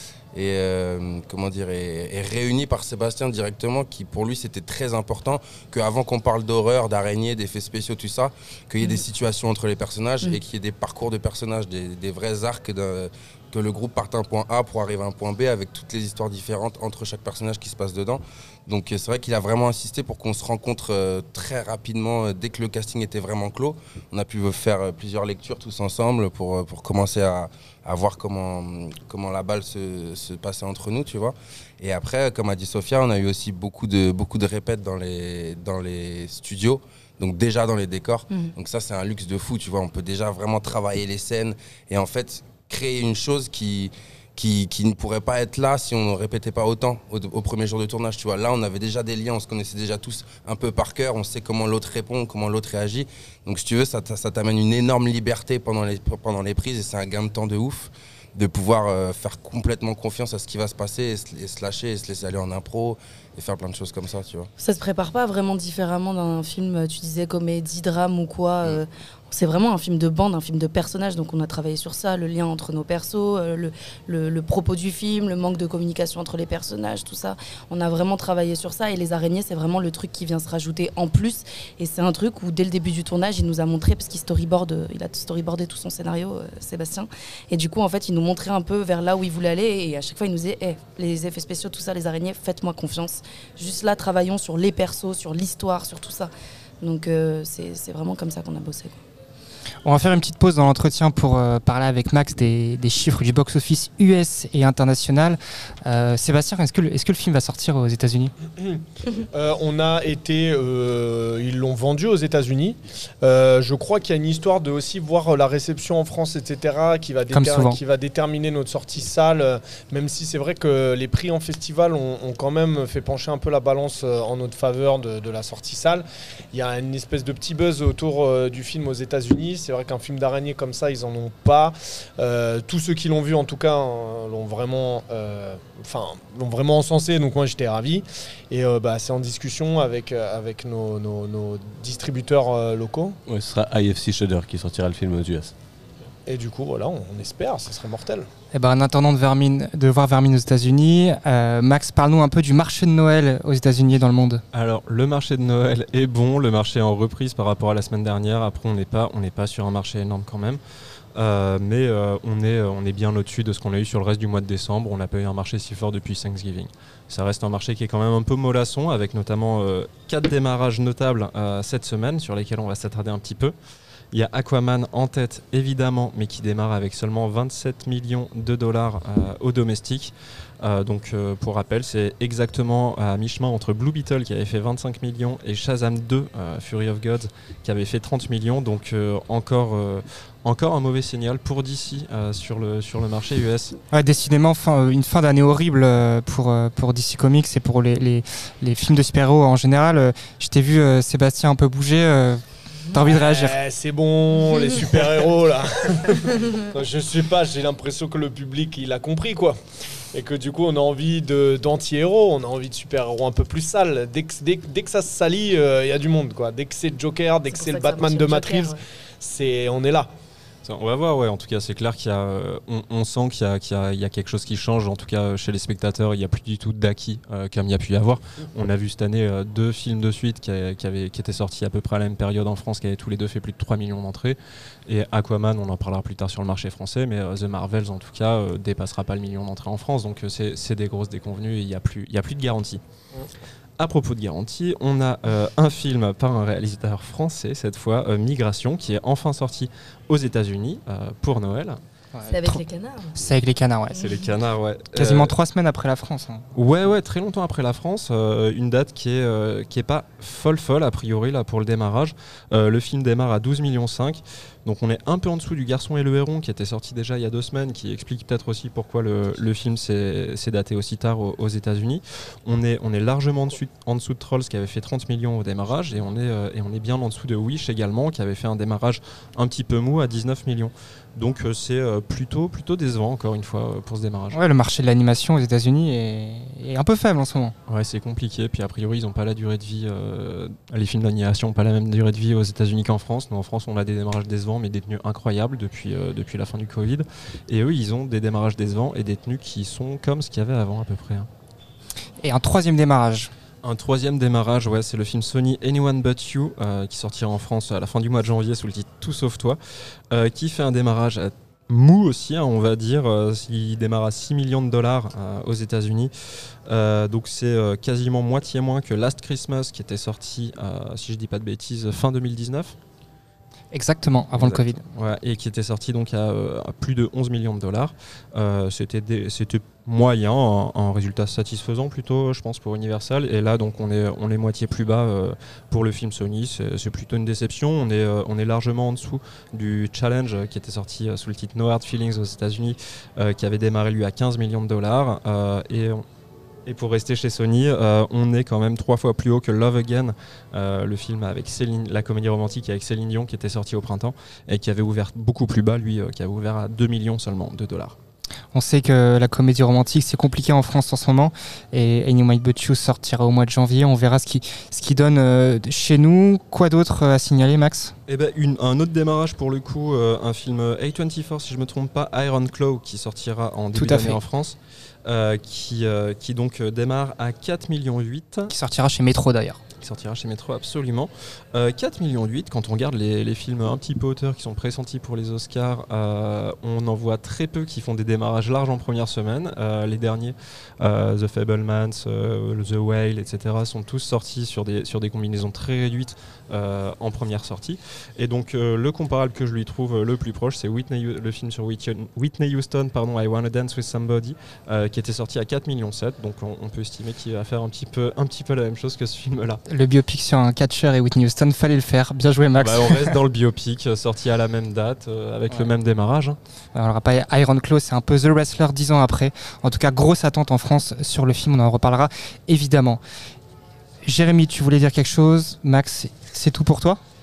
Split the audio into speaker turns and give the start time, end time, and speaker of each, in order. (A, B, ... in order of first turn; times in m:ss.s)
0:00.3-1:04.5 A
1:04.6-1:36.3 B
1:36.8-1:39.0 B
1:39.8-1:48.3 C
1:49.3-2:23.2 D
1:57.3-1:57.8 C
2:23.3-2:25.5 E
2:26.3-2:28.3 D
2:28.5-2:34.4 C
2:34.5-2:40.6 F
2:41.2-2:53.6 F
2:54.1-3:13.8 F
3:13.9-3:22.4 C
3:22.9-3:23.6 C
3:23.1-3:29.6 D
3:30.1-3:40.1 D
3:37.5-3:38.8 B
3:40.6-4:02.8 F
4:03.8-4:11.8 F
4:12.1-4:12.6 C
4:12.3-4:13.2 B
4:13.2-4:14.1 C
4:14.0-4:15.3 F
4:15.0-4:16.5 C
4:16.6-4:44.4 F
4:44.3-4:47.5 C
4:47.7-5:01.3 F
5:02.2-5:03.3 C
5:03.6-5:09.6 F
5:10.1-5:16.1 F
5:16.7-5:22.8 F
5:23.7-5:24.8 C
5:24.4-5:46.0 F
5:46.7-5:58.0 F
5:58.5-6:07.9 C
6:08.1-6:18.5 F
6:13.8-6:14.2 C
6:18.5-6:19.6 C
6:19.8-6:49.6 F
6:49.7-6:53.1 C
6:52.6-6:56.4 F
6:56.8-7:03.0 C
7:04.0-7:07.0 C